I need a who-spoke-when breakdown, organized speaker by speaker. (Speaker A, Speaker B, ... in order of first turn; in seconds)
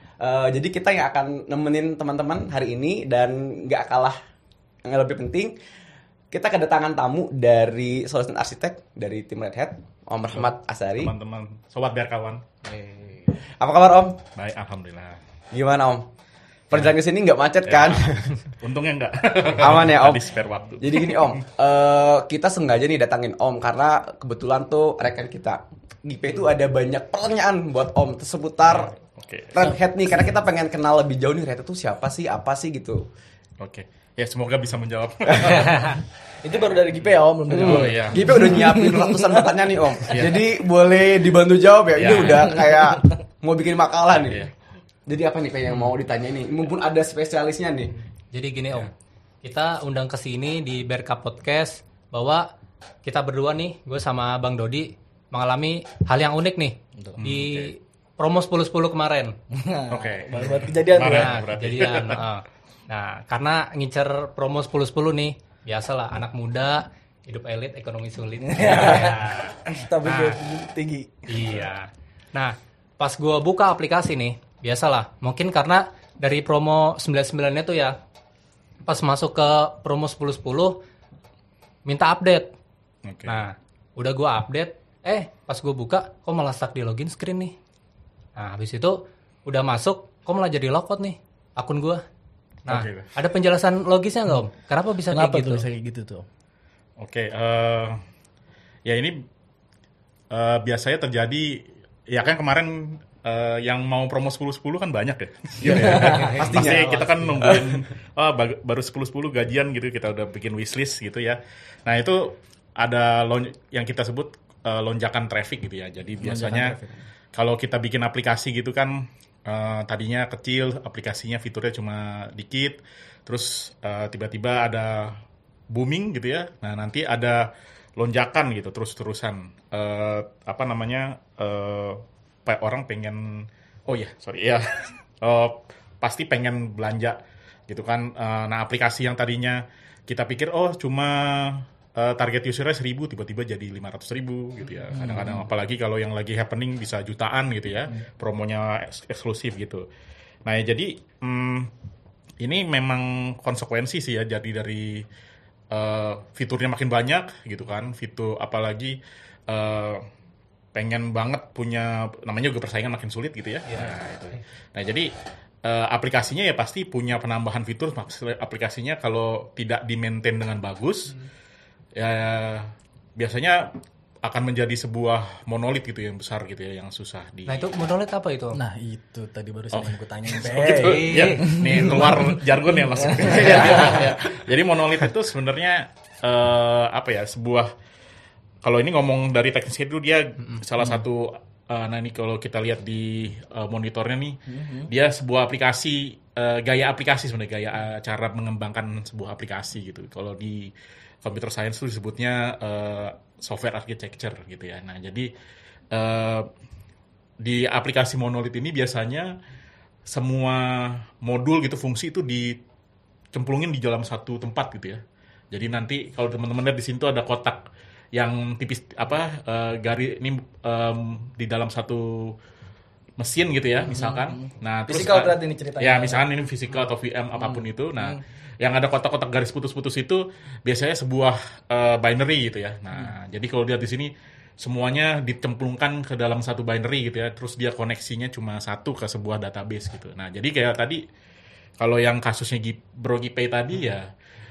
Speaker A: 0.2-4.2, 4.8-5.5, 6.3-11.1, 13.3-14.2, 15.5-16.1, 16.7-18.4, 19.6-20.3, 20.8-28.9, 29.5-33.0, 35.3-35.7, 37.5-44.5, 45.0-47.9, 105.6-107.8
Speaker B: 10.5-12.4, 14.3-15.2, 17.7-21.0, 28.7-29.7, 33.6-36.0, 37.6-38.4, 40.1-40.4, 42.0-42.5, 57.2-57.7, 59.9-62.4, 83.0-83.4, 92.7-93.1, 97.0-98.0, 98.8-99.2, 100.3-116.8, 117.3-125.2, 125.7-149.9, 150.4-151.7, 152.4-155.1, 155.7-160.0, 160.7-165.1, 165.6-171.2, 171.9-173.7, 174.2-177.6, 179.7-187.7, 188.6-205.3, 205.9-206.5, 207.4-209.3, 210.1-212.6, 213.3-215.0, 215.5-217.6, 218.1-222.3, 223.2-241.0, 241.8-244.1
Speaker C: 36.0-40.2, 59.5-61.4, 68.5-71.3, 95.1-96.2, 105.7-106.8, 116.2-117.0, 144.9-145.4, 178.5-184.3, 194.5-194.9, 223.9-226.3
Speaker D: 48.3-48.9, 49.4-52.4, 53.0-59.3, 61.1-62.4, 62.9-69.5, 70.0-70.4, 71.3-78.0, 78.8-80.8, 81.8-82.5, 83.2-87.5, 88.3-92.0, 92.7-95.6, 106.2-106.6, 163.7-164.0, 177.5-178.6, 180.8-181.6